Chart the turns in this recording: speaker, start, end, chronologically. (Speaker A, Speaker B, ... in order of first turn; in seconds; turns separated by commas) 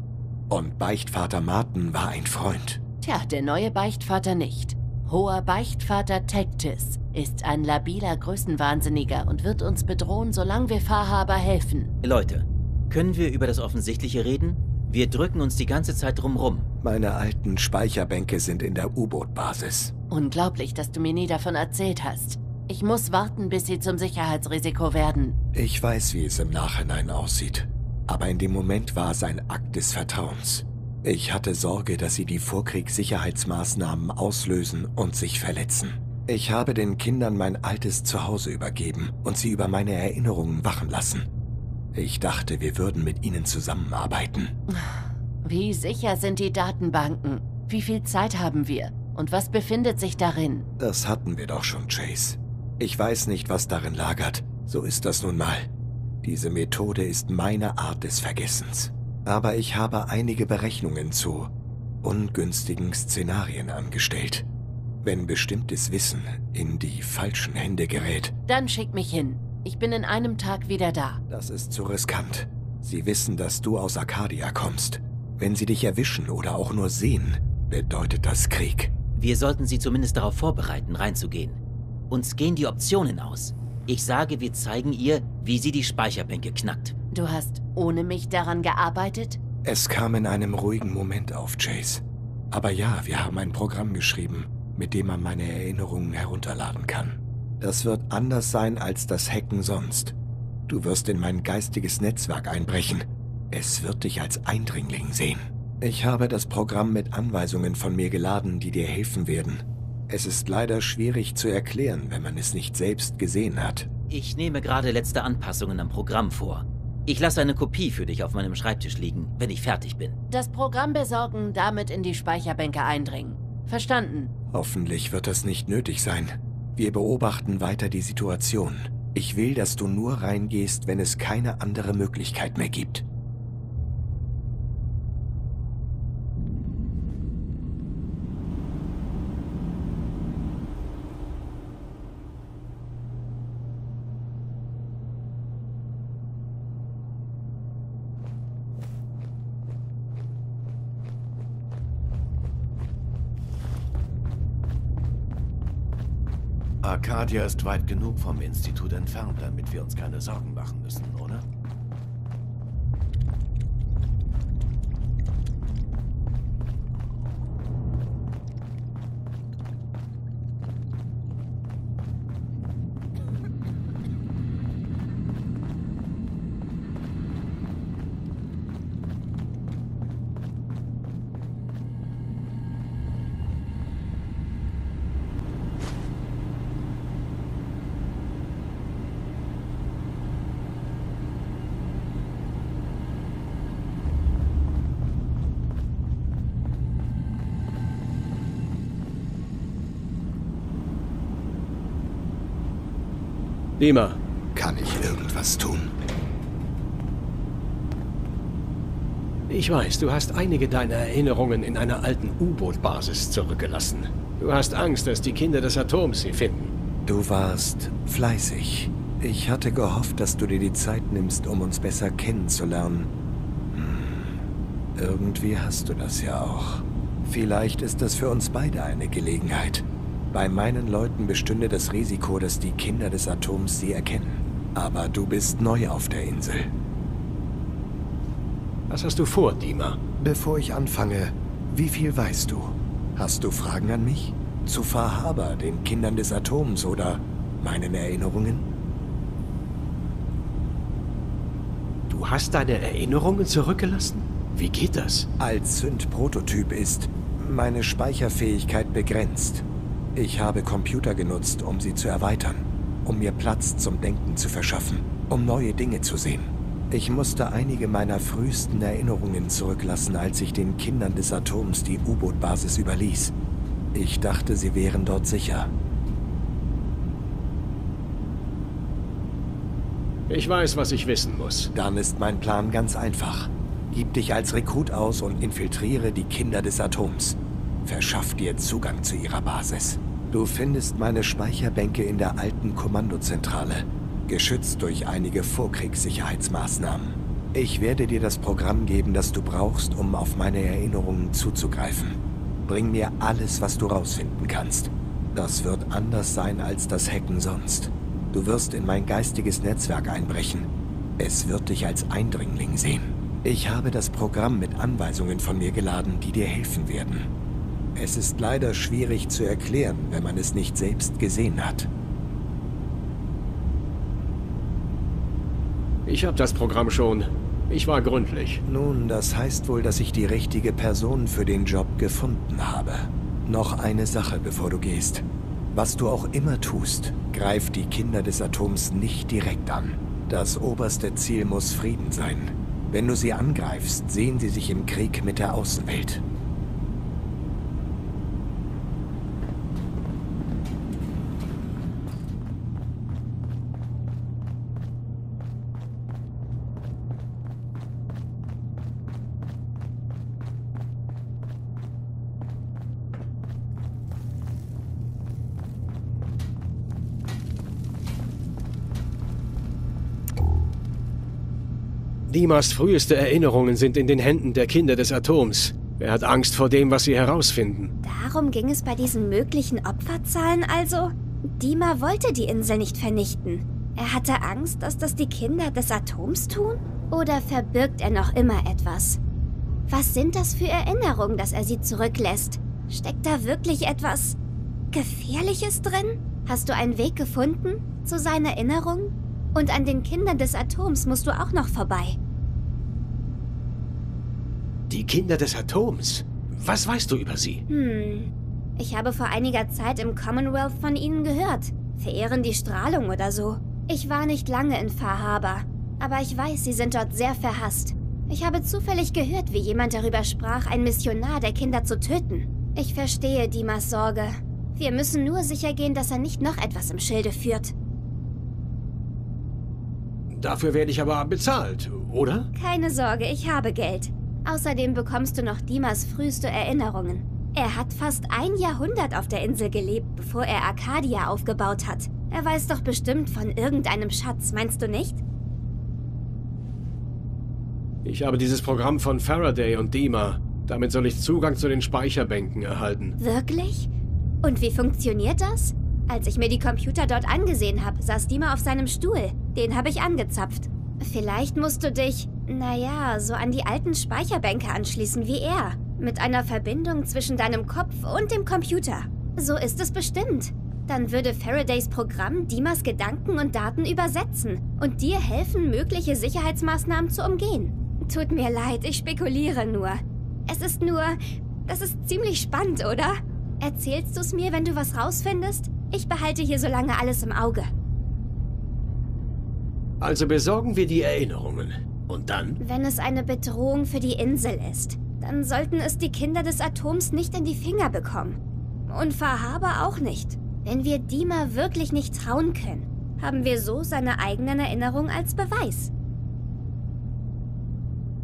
Speaker A: 0.5-2.8, Speaker B: 3.0-11.9, Speaker C: 12.0-16.6, Speaker A: 16.8-19.9, Speaker B: 20.1-25.3, Speaker A: 25.5-41.3, Speaker A: 41.9-44.5, Speaker B: 44.7-50.7, Speaker A: 50.8-55.7, Speaker A: 56.2-64.5, Speaker A: 65.0-68.3, Speaker B: 68.5-71.2, Speaker A: 71.3-78.9, Speaker C: 79.2-86.9, Speaker B: 87.1-89.4, Speaker A: 89.6-100.2, Speaker A: 100.7-113.9, Speaker C: 114.1-120.2, Speaker B: 120.3-124.3, Speaker A: 124.5-133.0, Speaker D: 156.8-161.4, Speaker E: 203.8-204.2, Speaker A: 204.5-205.9, Speaker E: 209.5-216.7, Speaker A: 217.1-223.1, Speaker A: 223.7-236.7, Speaker E: 238.9-240.0, Speaker A: 240.2-248.7, Speaker E: 252.1-255.3, Speaker A: 255.4-273.3, Speaker A: 273.9-275.7, Speaker E: 280.3-281.7, Speaker A: 281.7-317.3, Speaker A: 317.9-321.9, Speaker E: 326.1-328.6, Speaker A: 328.6-346.2, Speaker E: 372.3-377.9, Speaker F: 378.0-389.2, Speaker F: 389.9-394.4, Speaker F: 394.9-402.2, Speaker E: 404.9-407.6, Speaker F: 407.7-427.7, Speaker E: 430.3-432.5, Speaker F: 432.5-445.2, Speaker E: 448.0-453.2, Speaker F: 453.2-453.9, Speaker F: 454.4-487.7, Speaker E: 490.0-492.6, Speaker F: 492.6-505.9